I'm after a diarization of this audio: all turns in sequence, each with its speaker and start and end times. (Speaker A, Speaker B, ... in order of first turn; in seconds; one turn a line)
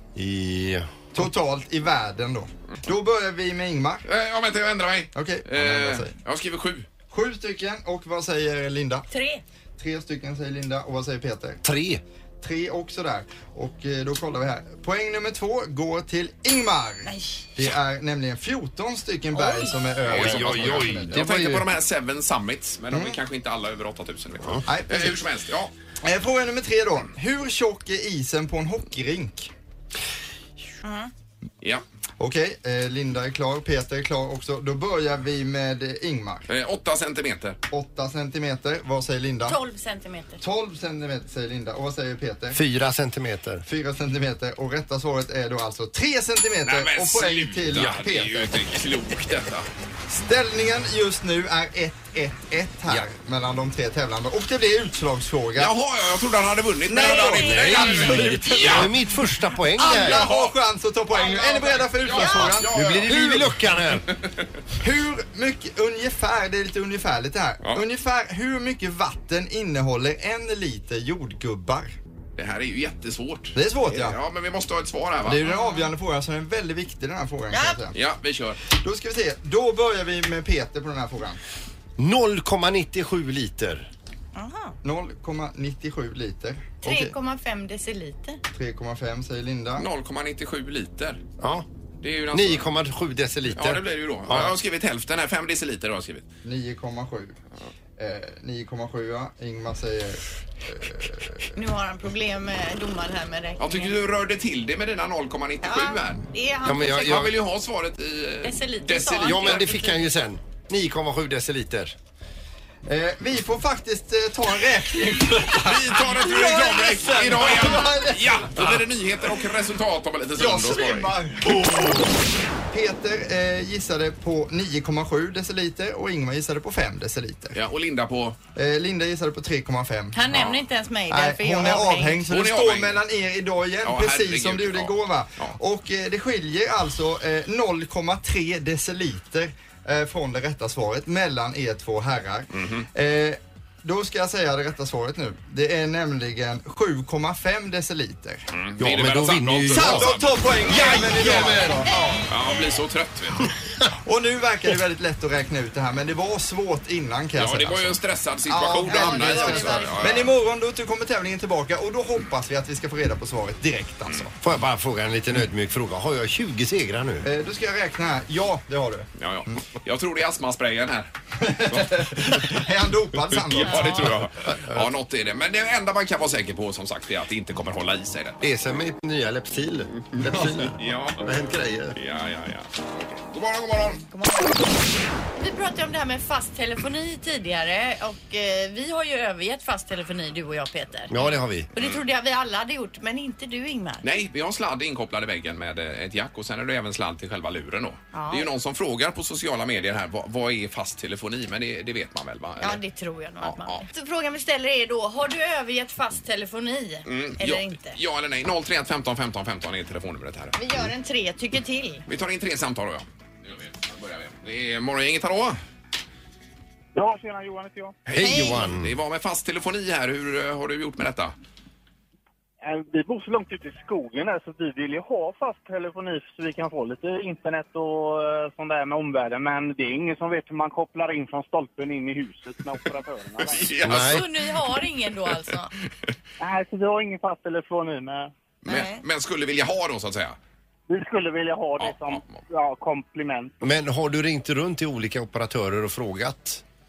Speaker A: 0.1-1.3
Speaker B: 1.1-4.0
Speaker C: 4.0-6.9
Speaker B: 5.1-6.1
Speaker B: 7.1-9.1
Speaker D: 9.1-9.4
Speaker B: 9.8-11.6
Speaker A: 11.6-12.0
Speaker B: 12.4-21.2
Speaker D: 17.0-17.5
Speaker D: 19.3-19.8
Speaker C: 20.1-25.7
Speaker A: 20.1-21.7
Speaker B: 22.9-23.2
Speaker B: 24.7-25.2
Speaker B: 26.0-29.5
Speaker D: 30.8-31.1
Speaker B: 32.2-36.5
Speaker C: 36.5-37.6
Speaker B: 37.7-39.6
Speaker D: 39.5-40.4
Speaker B: 40.4-42.6
Speaker A: 42.5-43.6
Speaker B: 43.6-48.6
Speaker C: 46.6-49.7
Speaker B: 50.1-55.7
Speaker C: 55.5-58.9
Speaker B: 56.9-58.9
Speaker D: 57.0-58.6
Speaker A: 57.4-60.3
Speaker B: 59.8-63.5
Speaker C: 59.8-60.5
Speaker D: 61.1-62.5
Speaker C: 62.0-63.4
Speaker A: 62.7-64.1
Speaker C: 64.1-64.4
Speaker B: 64.8-71.9
Speaker C: 72.4-75.5
Speaker B: 73.5-74.2
Speaker B: 75.2-78.0
Speaker D: 75.5-75.9
Speaker D: 77.5-77.8
Speaker C: 77.9-78.6
Speaker B: 78.7-81.4
Speaker A: 82.0-83.9
Speaker D: 84.3-84.8
Speaker B: 84.8-87.1
Speaker D: 86.8-88.4
Speaker B: 88.5-89.9
Speaker C: 89.8-91.2
Speaker A: 91.4-91.7
Speaker C: 92.0-92.7
Speaker A: 92.3-94.6
Speaker C: 93.5-96.2
Speaker B: 96.4-97.4
Speaker B: 98.0-101.5
Speaker D: 101.5-103.9
Speaker C: 103.6-106.2
Speaker D: 105.6-107.3
Speaker A: 106.6-107.4
Speaker C: 106.9-109.7
Speaker D: 108.4-110.1
Speaker A: 109.2-111.9
Speaker B: 112.8-118.8
Speaker C: 115.5-121.1
Speaker B: 120.3-122.1
Speaker B: 122.7-127.5
Speaker C: 127.5-128.4
Speaker B: 128.5-130.2
Speaker D: 130.1-132.2
Speaker C: 130.3-130.6
Speaker B: 131.1-148.5
Speaker C: 132.3-133.0
Speaker C: 133.8-135.6
Speaker C: 142.5-142.9
Speaker C: 148.5-151.6
Speaker A: 148.8-151.8
Speaker B: 149.7-152.3
Speaker D: 151.9-152.3
Speaker C: 152.3-153.5
Speaker A: 153.4-153.9
Speaker B: 154.0-164.3
Speaker C: 157.3-160.3
Speaker D: 158.8-160.3
Speaker A: 164.4-167.3
Speaker B: 167.2-169.1
Speaker C: 169.2-171.1
Speaker B: 171.4-174.2
Speaker C: 171.6-172.6
Speaker C: 173.3-178.4
Speaker D: 173.7-174.1
Speaker A: 174.5-174.9
Speaker A: 178.4-182.0
Speaker C: 180.1-181.3
Speaker B: 180.4-180.7
Speaker C: 181.9-184.0
Speaker D: 184.1-184.7
Speaker D: 185.3-194.0
Speaker A: 191.1-191.7
Speaker C: 194.0-202.8
Speaker D: 198.1-198.5
Speaker D: 202.6-208.0
Speaker C: 203.4-203.8
Speaker C: 207.1-210.6
Speaker D: 210.6-212.0
Speaker C: 212.1-215.6
Speaker E: 216.9-218.0
Speaker C: 218.1-221.3
Speaker A: 218.1-219.0
Speaker D: 218.2-218.6
Speaker E: 222.6-233.8
Speaker C: 233.5-234.3
Speaker A: 233.8-234.2
Speaker D: 233.9-235.7
Speaker E: 236.4-238.3
Speaker C: 238.6-240.4
Speaker D: 238.7-239.0
Speaker E: 240.9-243.7
Speaker C: 241.8-242.4
Speaker A: 243.6-246.6